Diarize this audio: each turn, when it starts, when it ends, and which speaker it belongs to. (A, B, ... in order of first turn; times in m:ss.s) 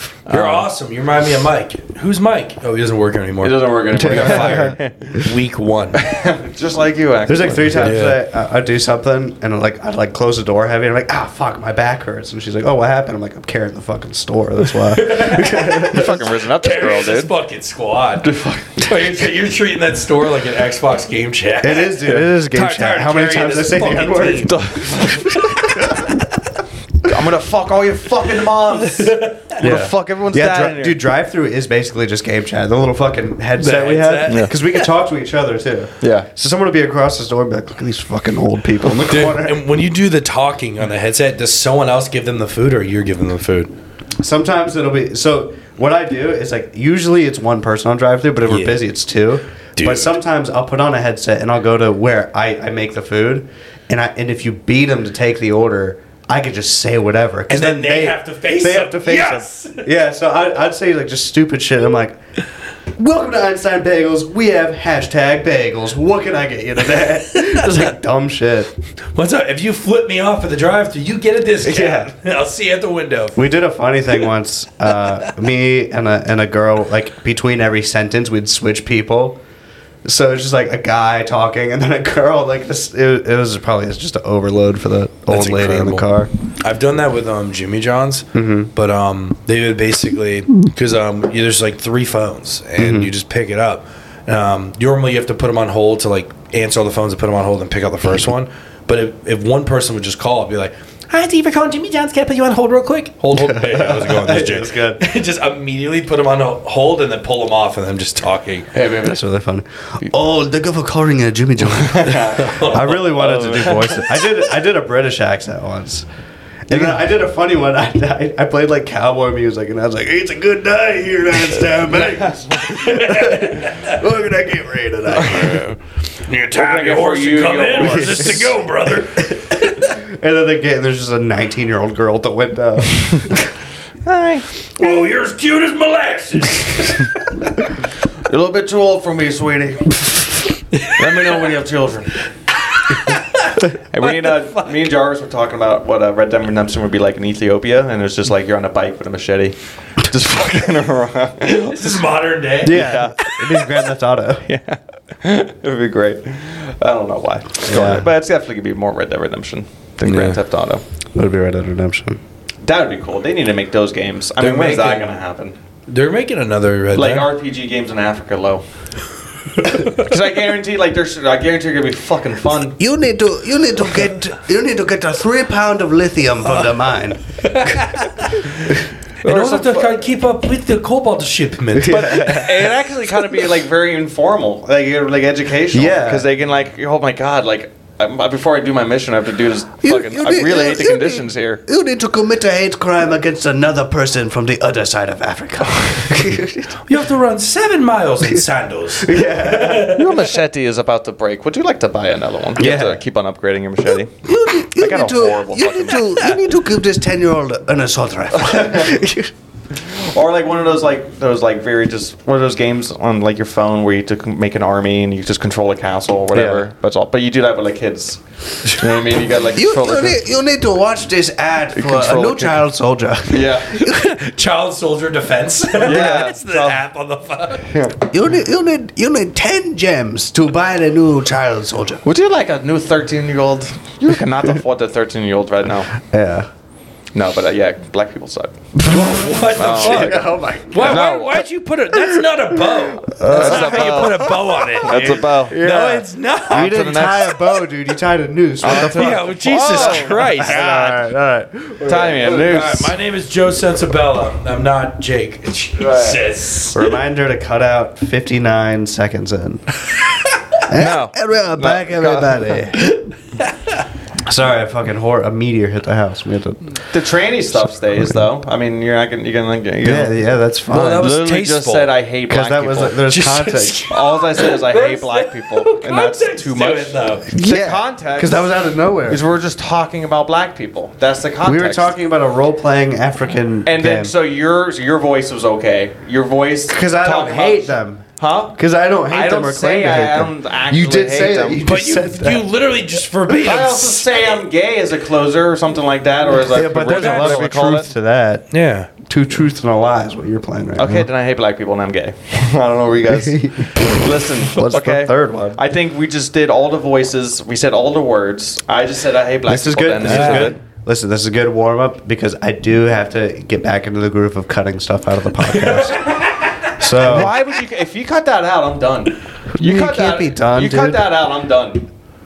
0:00.2-0:00.7 A
0:00.3-0:06.1 B
0:03.4-0:04.9 A
0:03.9-0:05.3 C
0:06.0-0:08.0 A
0:07.3-0:16.2 C
0:07.7-0:08.2 B
0:14.9-0:26.0 B
0:15.7-0:17.3 A
0:18.2-0:18.9 A
0:21.6-0:24.6 C
0:24.3-0:25.9 A
0:27.0-0:31.0 A
0:28.7-0:29.8 B
0:29.6-0:39.6 C
0:33.6-0:34.8 B
0:34.3-0:34.5 A
0:36.0-0:36.3 A
0:39.1-0:43.7 B
0:44.2-1:02.2 C
0:48.5-0:48.8 B
0:49.8-0:50.1 B
0:57.5-0:59.9 B
1:03.0-1:08.7 C
1:07.3-1:07.8 B
1:09.2-1:13.5 B
1:11.6-1:12.1 C
1:13.4-1:19.4 C
1:20.0-1:26.3 C
1:25.3-1:26.0 B
1:26.6-1:48.7 B
1:28.3-1:28.7 C
1:32.8-1:33.1 C
1:43.3-1:45.0 C
1:48.7-1:49.2 A
1:48.9-1:56.1 C
1:51.7-1:54.2 A
1:52.3-1:53.0 B
1:56.7-2:05.6 C
2:02.6-2:04.0 B
2:05.1-2:05.8 A
2:06.3-2:10.0 B
2:06.5-2:08.4 A
2:07.8-2:08.6 C
2:10.0-2:13.5 C
2:14.0-2:14.4 A
2:14.8-2:17.2 B
2:18.2-2:22.2 A
2:20.7-2:21.3 B
2:22.7-2:24.7 B
2:23.9-2:31.8 A
2:31.4-2:33.1 B
2:32.6-2:34.4 C
2:32.7-2:33.8 A
2:34.5-2:40.8 A
2:37.6-2:38.1 C
2:40.0-2:40.4 B
2:41.2-2:42.2 C
2:42.6-2:45.6 A
2:44.4-2:45.1 B
2:45.9-2:47.3 B
2:46.9-2:48.6 A
2:49.7-2:52.8 A
2:52.8-2:57.9 C
2:57.4-3:02.6 B
2:59.2-3:00.1 A
3:01.8-3:02.5 C
3:01.9-3:11.6 A
3:05.7-3:06.3 C
3:09.8-3:16.8 C
3:16.9-3:20.3 B
3:19.0-3:20.0 C
3:19.9-3:24.1 A
3:22.6-3:23.0 C
3:24.2-3:29.3 C
3:24.7-3:26.0 A
3:28.3-3:29.0 A
3:29.7-3:40.2 A
3:36.3-3:36.7 C
3:39.5-3:44.1 C
3:41.7-3:42.6 A
3:43.3-3:43.7 A
3:43.7-3:47.7 B
3:45.8-3:46.8 A
3:45.9-3:46.3 C
3:47.7-3:48.0 A
3:48.0-3:52.0 C
3:52.0-3:55.9 A
3:56.0-3:56.5 C
3:57.2-3:58.7 A
3:58.9-4:06.8 B
3:59.5-4:01.4 A
3:59.7-4:01.0 C
4:02.7-4:12.5 C
4:03.3-4:05.6 A
4:06.5-4:07.4 A
4:08.6-4:11.0 A
4:08.7-4:10.8 B
4:11.8-4:12.9 A
4:12.3-4:17.0 B
4:15.8-4:16.2 A
4:16.7-4:19.7 C
4:20.7-4:22.9 C
4:20.7-4:22.6 A
4:22.8-4:23.5 B
4:24.2-4:26.8 C
4:26.9-4:30.1 A
4:29.8-4:31.1 C
4:30.7-4:31.9 B
4:31.0-4:33.0 A
4:32.3-4:33.9 C
4:33.1-4:37.3 B
4:33.9-4:38.5 A
4:37.3-4:39.2 C
4:39.1-4:41.9 A
4:41.4-4:44.1 C
4:43.7-4:48.6 A
4:46.7-4:48.0 C
4:48.6-4:52.5 C
4:49.1-4:51.6 A
4:51.6-4:54.4 B
4:53.3-4:57.9 A
4:56.4-4:58.5 C
4:56.9-4:57.5 B
4:58.5-4:58.9 B
4:59.0-5:01.1 C
5:00.8-5:10.6 A
5:03.1-5:05.6 C
5:09.5-5:16.1 C
5:10.0-5:10.5 B
5:15.5-5:17.3 B
5:16.8-5:17.3 C
5:17.0-5:21.9 A
5:19.6-5:21.1 C